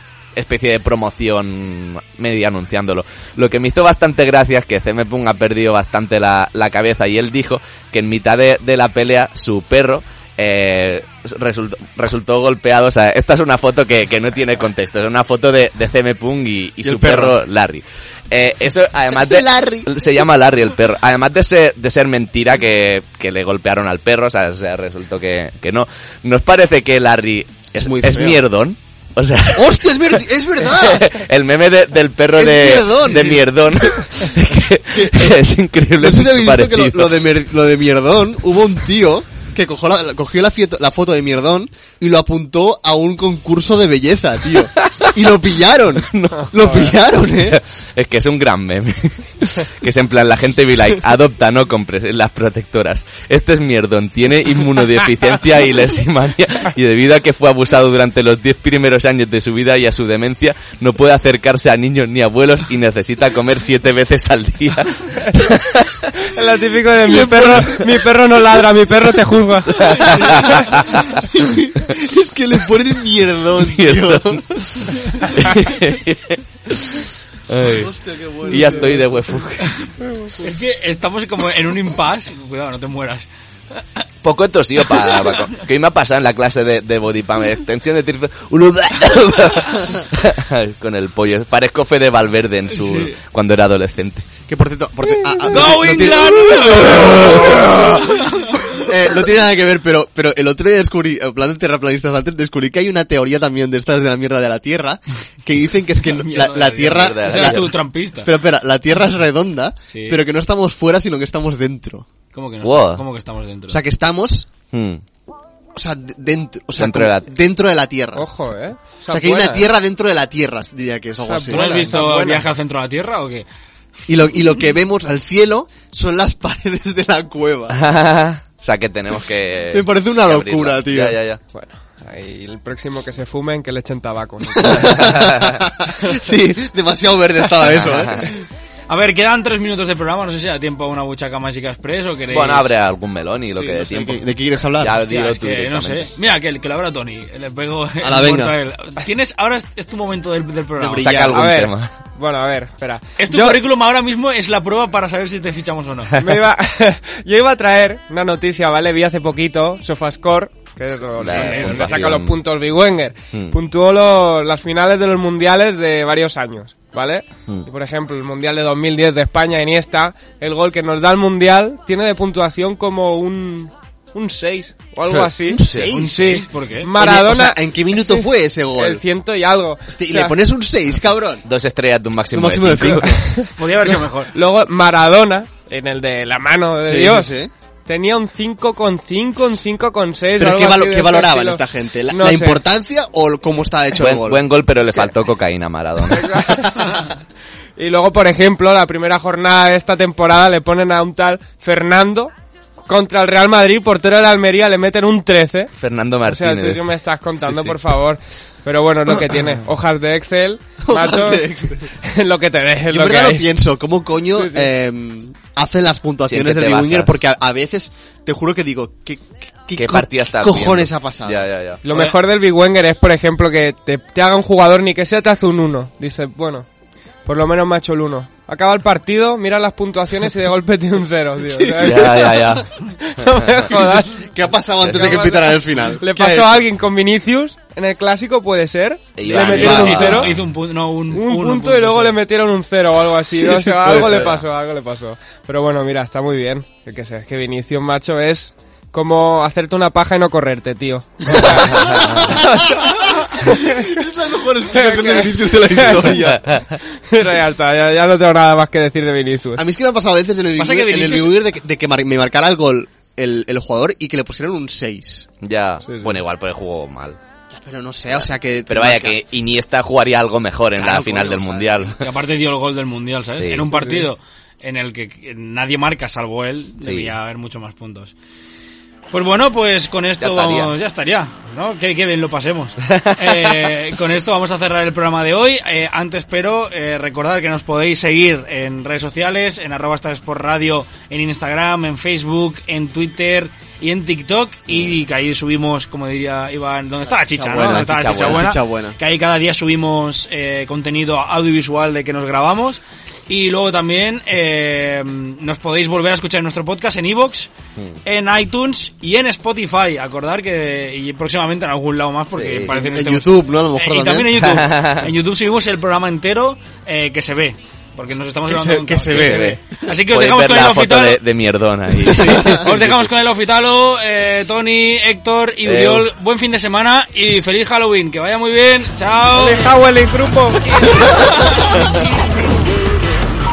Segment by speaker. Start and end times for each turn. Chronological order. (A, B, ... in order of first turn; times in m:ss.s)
0:00.4-0:37.1 A
0:16.8-0:17.4 B
0:19.1-0:19.9 B
0:27.8-0:28.4 B
0:29.5-0:31.2 B
0:32.3-0:34.3 B
0:34.9-0:35.4 B
0:36.0-0:47.6 B
0:44.8-0:45.2 A
0:46.0-1:06.1 A
1:06.2-1:10.1 C
1:07.0-1:07.9 B
1:09.8-1:11.2 A
1:09.9-1:10.8 D
1:10.1-1:10.4 B
1:11.2-1:15.2 B
1:13.6-1:17.9 A
1:17.6-1:19.0 B
1:18.5-1:19.7 A
1:18.6-1:18.9 C
1:19.6-1:23.3 D
1:24.2-1:34.2 A
1:24.8-1:25.5 D
1:32.7-1:33.2 D
1:34.5-1:38.3 B
1:35.5-1:38.8 D
1:38.8-1:52.0 B
1:46.1-1:48.3 D
1:46.9-1:47.7 A
1:49.9-1:50.2 D
1:52.3-1:53.8 D
1:52.6-1:53.0 A
1:53.7-1:54.5 B
1:54.7-1:55.0 A
1:55.7-1:58.2 B
1:56.7-1:57.3 A
1:58.2-1:59.7 C
1:59.1-2:02.0 B
2:01.2-2:02.4 C
2:01.5-2:03.4 D
2:04.1-2:07.8 B
2:07.7-2:11.4 A
2:09.7-2:11.2 B
2:11.5-2:15.1 C
2:14.5-2:18.4 B
2:14.8-2:15.6 A
2:17.8-2:18.2 A
2:18.9-2:22.7 D
2:22.3-2:24.2 A
2:23.5-2:25.0 B
2:24.8-2:26.1 A
2:25.0-2:31.1 D
2:28.0-2:28.5 B
2:30.8-2:31.5 B
2:31.0-2:31.9 A
2:31.3-2:33.6 C
2:33.2-2:36.1 D
2:36.2-3:00.4 C
2:41.2-2:42.4 A
2:41.2-2:42.0 D
2:43.3-2:43.6 A
2:55.1-2:55.9 A
2:55.4-2:56.4 B
2:55.8-2:56.9 D
2:56.9-2:59.0 B
2:59.9-3:01.4 B
3:01.4-3:03.2 A
3:02.3-3:03.2 B
3:03.0-3:03.5 C
3:03.6-3:04.3 D
3:04.3-3:07.3 C
3:06.8-3:07.5 B
3:07.8-3:12.6 C
3:10.4-3:14.4 B
3:14.0-3:16.4 A
3:16.1-3:16.9 C
3:16.5-3:16.9 B
3:17.8-3:22.3 C
3:22.9-3:25.7 C
3:25.8-3:26.8 A
3:26.3-3:33.5 C
3:27.4-3:27.8 A
3:30.8-3:31.9 B
3:32.9-3:41.5 B
3:34.4-3:34.7 C
3:36.2-3:37.1 A
3:39.8-3:41.8 A
3:41.8-3:46.7 C
3:41.9-3:42.1 D
3:47.2-3:52.4 C
3:51.4-3:52.6 B
3:51.8-3:52.6 A
3:53.0-3:54.2 C
3:54.0-3:56.6 B
3:54.8-3:55.2 A
3:54.8-4:00.3 C
3:59.2-4:00.4 A
3:59.2-4:02.2 D
4:01.1-4:13.9 C
4:03.4-4:04.3 B
4:03.8-4:04.4 A
4:11.3-4:16.6 B
4:11.7-4:12.1 A
4:14.7-4:19.6 C
4:19.6-4:25.3 B
4:20.6-4:21.4 D
4:25.4-4:27.2 A
4:25.8-4:26.2 C
4:27.5-4:29.2 B
4:28.1-4:32.0 A
4:30.7-4:32.0 B
4:32.0-4:38.1 D
4:33.4-4:33.7 A
4:33.7-4:34.0 C
4:36.8-4:37.1 A
4:39.1-5:07.5 D
4:40.2-4:40.7 A
4:42.8-4:43.7 A
4:57.2-4:59.0 B
4:57.6-4:58.5 A
5:08.0-5:21.2 D
5:12.3-5:12.8 A
5:12.7-5:14.4 B
5:14.3-5:15.1 A
5:18.5-5:19.5 B
5:19.1-5:23.1 A
5:22.0-5:29.8 D
5:25.6-5:26.1 A
5:29.3-5:30.7 C
5:30.6-5:32.0 D
5:31.7-5:32.0 A